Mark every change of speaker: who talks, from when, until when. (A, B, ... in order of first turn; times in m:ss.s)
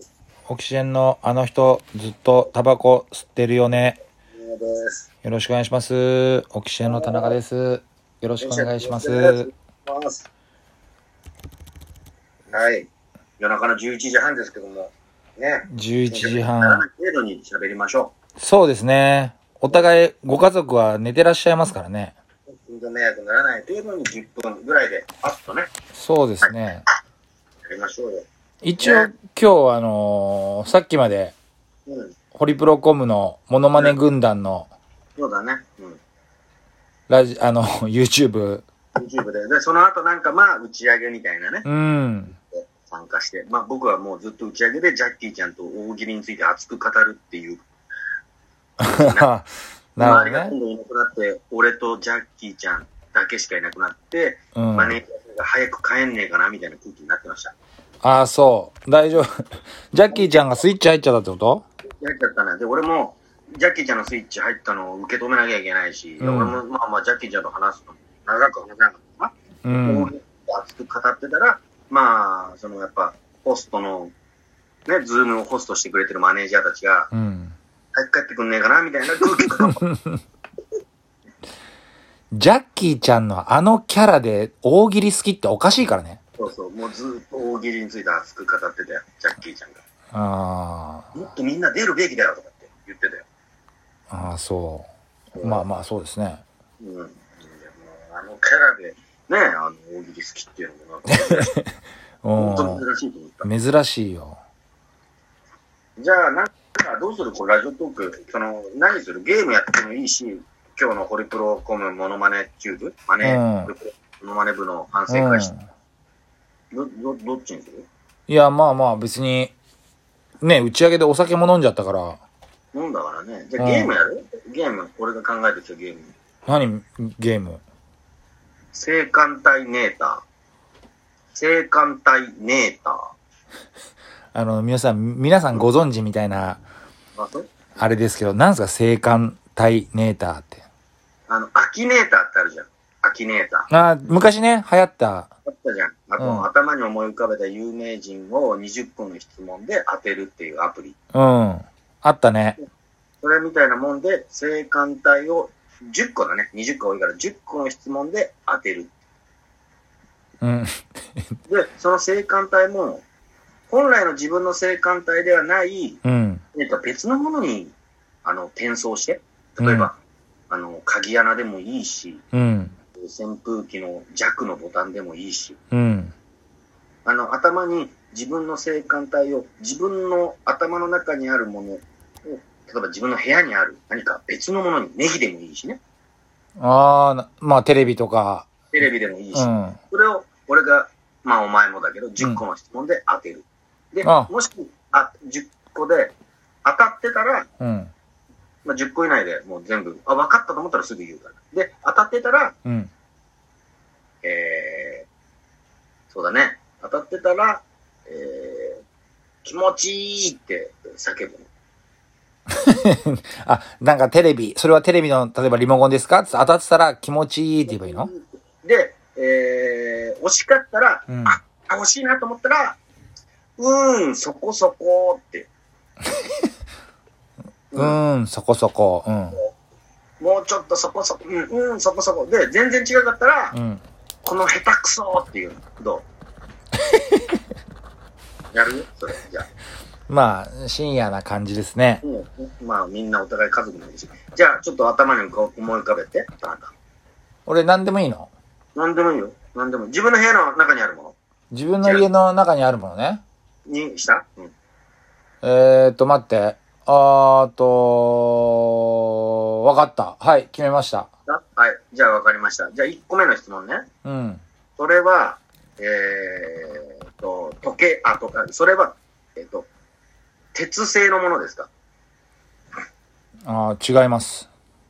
0:00.5-0:04.0 A
0:04.3-0:05.1 B
0:05.2-0:09.5 A
0:06.8-0:07.4 B
0:08.4-0:10.3 B
0:12.5-0:12.9 B
0:13.4-0:18.1 B
0:15.7-0:16.8 A
0:18.4-0:22.1 A
0:22.5-0:25.7 B
0:25.9-0:26.8 A
0:27.7-0:28.2 B
0:28.6-0:31.3 A
0:28.8-0:29.1 B
0:31.8-0:32.1 B
0:32.3-0:34.7 A
0:35.2-0:36.0 B
0:37.1-0:38.6 A
0:39.0-0:41.6 B
0:41.6-0:42.4 A
0:42.5-0:47.6 B
0:48.8-0:50.5 A
0:48.9-0:49.3 B
0:50.0-0:57.5 B
0:54.5-0:55.0 A
0:58.0-0:59.3 A
0:59.9-1:01.6 A
1:00.1-1:00.4 B
1:02.0-1:14.1 B
1:06.2-1:06.6 A
1:09.6-1:10.1 A
1:14.8-1:17.1 B
1:17.1-1:17.6 A
1:17.9-1:19.8 B
1:19.7-1:20.2 A
1:22.3-1:26.2 A
1:26.4-1:29.8 B
1:30.1-1:31.1 A
1:31.1-1:33.2 B
1:34.1-1:36.4 A
1:35.4-1:35.6 B
1:36.8-1:41.5 B
1:41.1-1:42.8 A
1:42.4-1:43.5 B
1:43.4-1:44.4 A
1:46.0-1:55.5 B
1:53.2-1:53.7 A
1:55.1-1:55.6 A
1:56.7-1:57.9 B
1:58.3-1:59.5 A
2:00.4-2:02.2 A
2:02.7-2:06.1 B
2:03.6-2:03.9 A
2:06.4-2:07.6 A
2:08.7-2:10.2 B
2:11.3-2:13.1 B
2:14.3-2:16.6 A
2:17.2-2:17.5 B
2:17.8-2:20.6 A
2:21.3-2:23.7 B
2:23.7-2:25.3 A
2:25.4-2:31.0 B
2:26.2-2:26.4 A
2:31.1-2:32.6 A
2:33.2-2:38.9 B
2:40.4-2:40.8 A
2:41.5-2:43.0 B
2:43.7-2:46.0 B
2:46.0-2:46.4 A
2:46.5-2:50.0 B
2:49.6-2:49.9 A
2:50.5-2:52.2 B
2:52.3-2:52.7 A
2:53.0-2:55.6 B
2:55.7-2:56.1 A
2:57.0-3:05.8 B
3:06.6-3:08.5 A
3:08.7-3:16.1 B
3:09.3-3:09.8 A
3:14.0-3:14.3 A
3:16.6-3:17.5 B
3:17.6-3:17.9 A
3:18.6-3:22.5 B
3:22.6-3:22.9 A
3:24.2-3:25.0 B
3:26.1-3:28.8 B
3:29.4-3:31.5 B
3:32.6-3:38.1 A
3:37.7-3:42.8 B
3:41.1-3:41.4 A
3:43.6-3:45.5 B
3:47.7-3:49.4 A
3:50.2-3:53.5 B
3:53.5-3:53.8 A
3:54.2-3:56.0 B
3:58.5-3:59.4 B
4:00.1-4:02.0 A
4:02.0-4:06.7 B
4:07.4-4:08.3 A
4:08.7-4:11.2 B
4:11.5-4:13.2 A
4:11.8-4:12.1 B
4:13.7-4:14.5 B
4:15.4-4:21.1 A
4:21.3-4:23.9 B
4:24.0-4:24.4 A
4:24.8-4:29.7 B
4:30.5-4:31.7 B
4:33.5-4:34.5 A